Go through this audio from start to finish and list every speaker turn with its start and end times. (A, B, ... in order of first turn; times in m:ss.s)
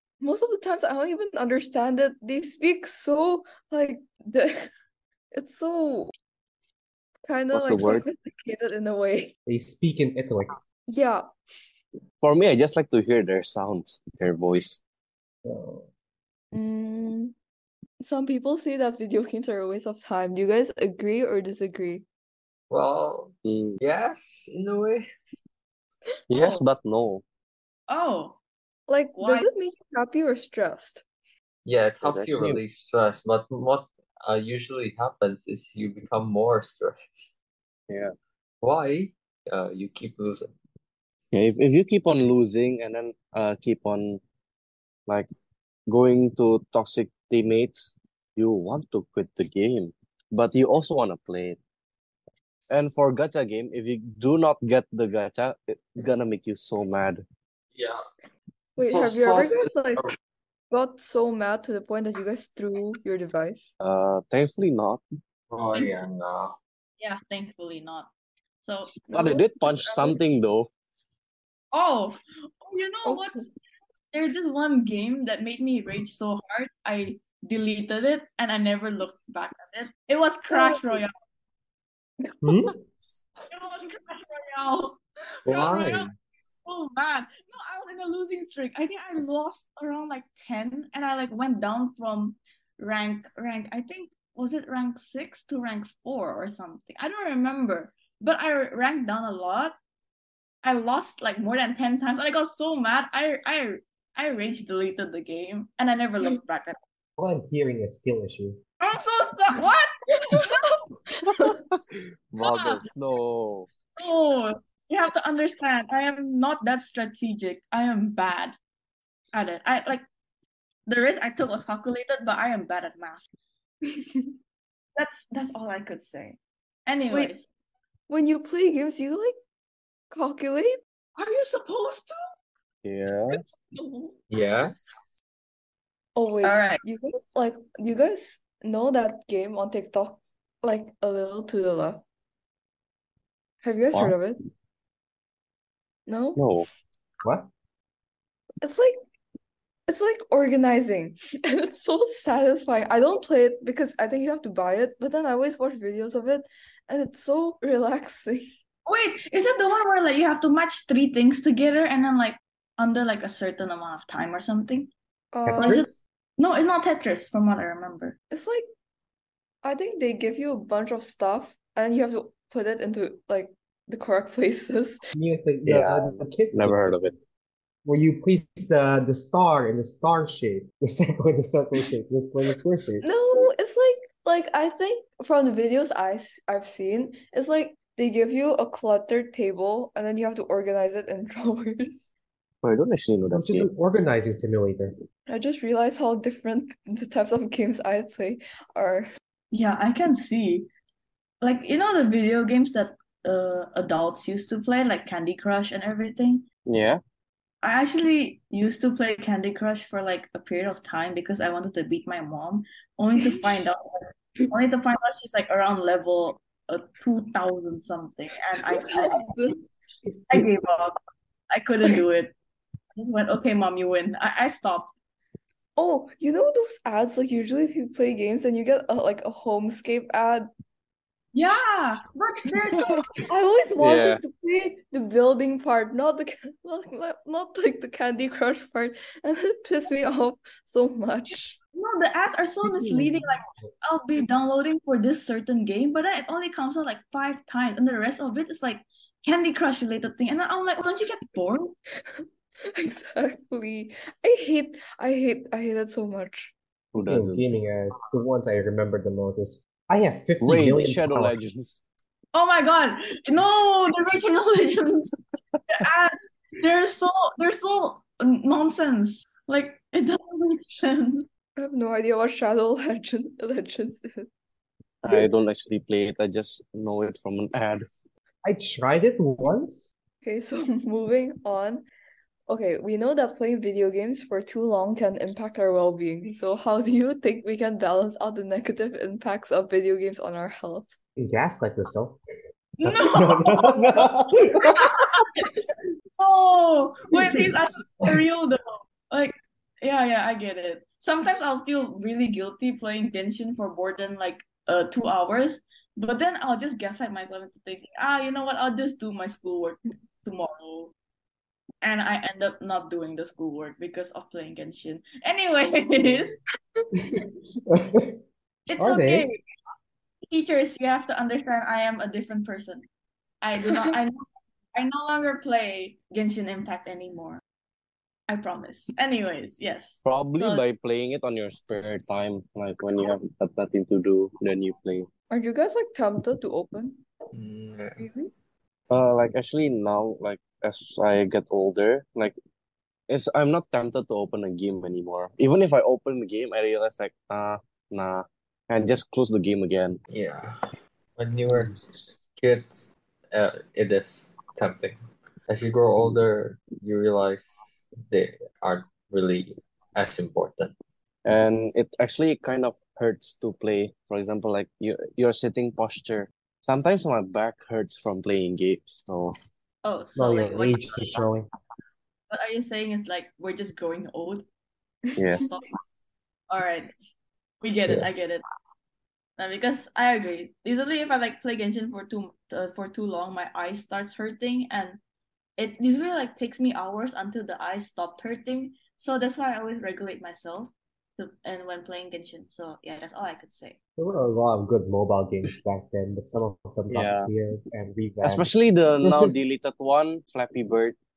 0:00.2-0:04.6 A
0:05.3-0:06.1 A
0:07.2-0:09.3 A
0:07.5-0:08.0 B
0:09.5-0:10.6 C
0:10.9-0:11.2 A
0:12.2-0:14.8 B
0:15.4-0:15.9 C
0:16.5-0:17.3 A
0:18.0-0:22.0 A
0:22.7-0:25.0 D
0:23.4-0:23.8 B
0:26.3-0:27.2 B
0:26.3-0:26.6 A
0:27.9-0:28.4 E
0:28.9-0:31.0 A
0:29.2-0:29.5 E
0:31.6-0:37.3 D
0:32.0-0:32.6 B
0:38.6-0:40.5 D
0:41.3-0:44.2 B
0:45.9-0:51.6 B
0:52.7-0:57.2 B
0:57.8-0:58.0 D
0:58.8-1:00.0 A
0:58.8-1:00.2 D
1:00.7-1:03.7 A
1:03.8-1:05.0 B
1:05.5-1:06.6 D
1:07.0-1:08.1 E
1:08.6-1:08.9 E
1:09.1-1:10.2 A
1:09.1-1:10.7 B
1:11.7-1:13.5 E
1:13.0-1:13.4 A
1:14.1-1:21.1 E
1:20.5-1:21.0 A
1:22.2-1:22.7 A
1:22.4-1:22.8 C
1:23.5-1:26.1 E
1:25.5-1:26.1 D
1:26.6-1:39.8 E
1:40.6-1:46.8 E
1:47.2-1:48.6 C
1:48.8-1:50.8 E
1:50.3-1:50.6 A
1:51.2-1:51.6 A
1:52.3-1:52.9 D
1:52.4-1:52.8 E
1:52.6-1:53.7 B
1:54.0-1:58.6 E
1:59.3-2:00.1 E
2:00.9-2:03.2 E
2:03.9-2:04.3 A
2:05.0-2:07.5 E
2:08.1-2:09.4 A
2:10.1-2:10.8 A
2:11.2-2:12.3 E
2:12.8-2:13.4 B
2:13.6-2:14.1 A
2:14.3-2:15.0 D
2:16.2-2:22.0 A
2:16.4-2:16.8 E
2:23.6-2:24.4 A
2:26.1-2:26.5 A
2:26.4-2:26.7 B
2:27.2-2:27.5 C
2:28.6-2:29.0 A
2:29.9-2:38.4 A
2:38.9-2:44.9 E
2:45.3-2:45.9 A
2:45.4-2:46.0 C
2:45.6-2:48.2 E
2:48.3-2:48.7 A
2:49.6-2:55.0 A
2:55.1-2:56.9 C
2:55.7-2:57.2 B
2:57.8-3:03.0 C
3:03.0-3:12.0 A
3:12.6-3:13.7 B
3:13.3-3:14.9 C
3:15.3-3:19.1 A
3:19.5-3:20.7 E
3:21.4-3:26.5 E
3:26.7-3:27.0 B
3:27.6-3:39.3 E
3:33.2-3:33.6 A
3:38.6-3:39.6 A
3:40.3-3:41.0 E
3:41.5-3:42.4 E
3:43.0-3:44.9 E
3:45.8-3:50.5 A
3:51.3-3:53.0 E
3:52.7-4:01.6 A
3:53.8-3:54.2 B
4:01.8-4:11.8 E
4:02.7-4:03.3 C
4:12.1-4:16.5 A
4:16.9-4:17.5 B
4:17.0-4:21.4 C
4:20.4-4:21.8 B
4:22.3-4:31.3 E
4:31.6-4:34.3 A
4:35.0-4:37.9 B
4:38.4-4:39.9 C
4:40.2-4:41.9 A
4:42.5-4:51.0 A
4:51.2-4:52.2 C
4:52.8-4:55.6 E
4:52.8-4:54.9 C
4:56.2-5:10.9 E
5:11.8-5:16.4 E
5:17.0-5:18.2 C
5:18.7-5:19.4 E
5:18.8-5:19.3 C
5:20.3-5:22.9 E
5:23.4-5:27.4 E
5:23.7-5:24.0 A
5:28.3-5:30.7 E
5:30.0-5:35.1 B
5:35.3-5:37.0 A
5:37.3-5:38.0 D
5:38.0-5:38.3 A
5:38.9-5:42.4 B
5:43.1-5:50.0 B
5:50.1-5:50.6 D
5:51.2-5:51.7 D
5:52.4-6:00.7 D
6:01.2-6:09.3 B
6:09.8-6:11.2 E
6:10.2-6:11.5 C
6:12.3-6:14.4 E
6:15.2-6:15.5 B
6:15.4-6:15.7 E
6:16.5-6:16.9 E
6:17.6-6:18.4 E
6:17.9-6:18.2 C
6:19.4-6:25.0 E
6:25.6-6:33.8 E
6:34.0-6:39.6 C
6:36.9-6:37.3 B
6:38.2-6:41.0 B